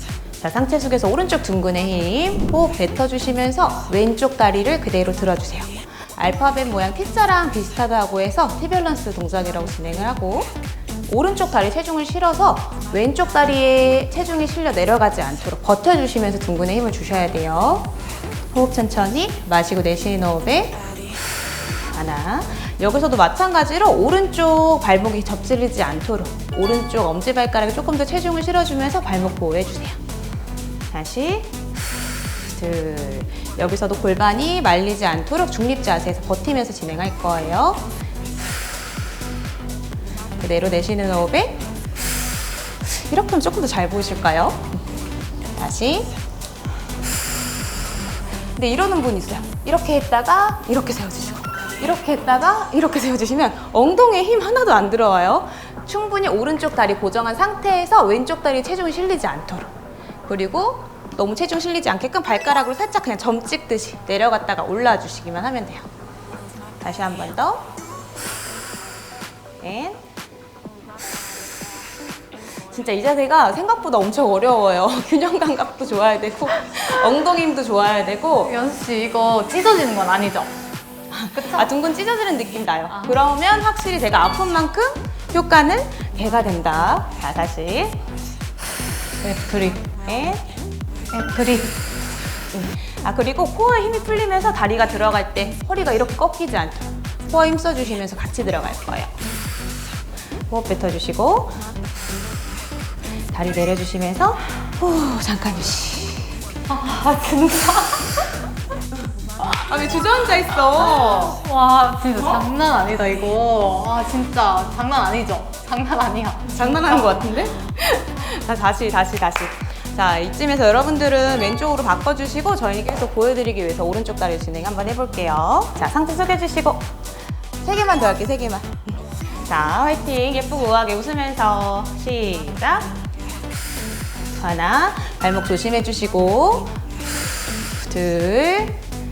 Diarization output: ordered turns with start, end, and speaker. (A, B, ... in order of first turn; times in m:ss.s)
0:00.4-0:10.5 A
0:11.1-0:17.9 A
0:18.5-0:20.8 A
0:21.9-0:30.0 A
0:30.9-0:31.5 A
0:32.4-0:37.8 A
0:40.4-0:41.6 A
0:42.8-0:44.8 A
0:45.6-0:46.1 A
0:48.6-0:59.7 A
1:00.3-1:05.9 A
1:06.8-1:07.7 A
1:09.6-1:10.0 A
1:12.7-1:18.5 A
1:18.4-1:20.5 B
1:21.1-1:28.0 A
1:21.3-1:21.7 B
1:29.2-1:29.9 B
1:30.0-1:30.5 A
1:31.1-1:31.8 B
1:32.5-1:39.1 A
1:40.5-1:41.6 A
1:43.3-1:46.4 A
1:46.7-1:48.3 B
1:49.4-1:51.4 A
1:50.7-1:57.4 B
1:56.5-2:06.9 A
2:07.6-2:12.9 A
2:14.4-2:16.7 A
2:17.8-2:18.8 A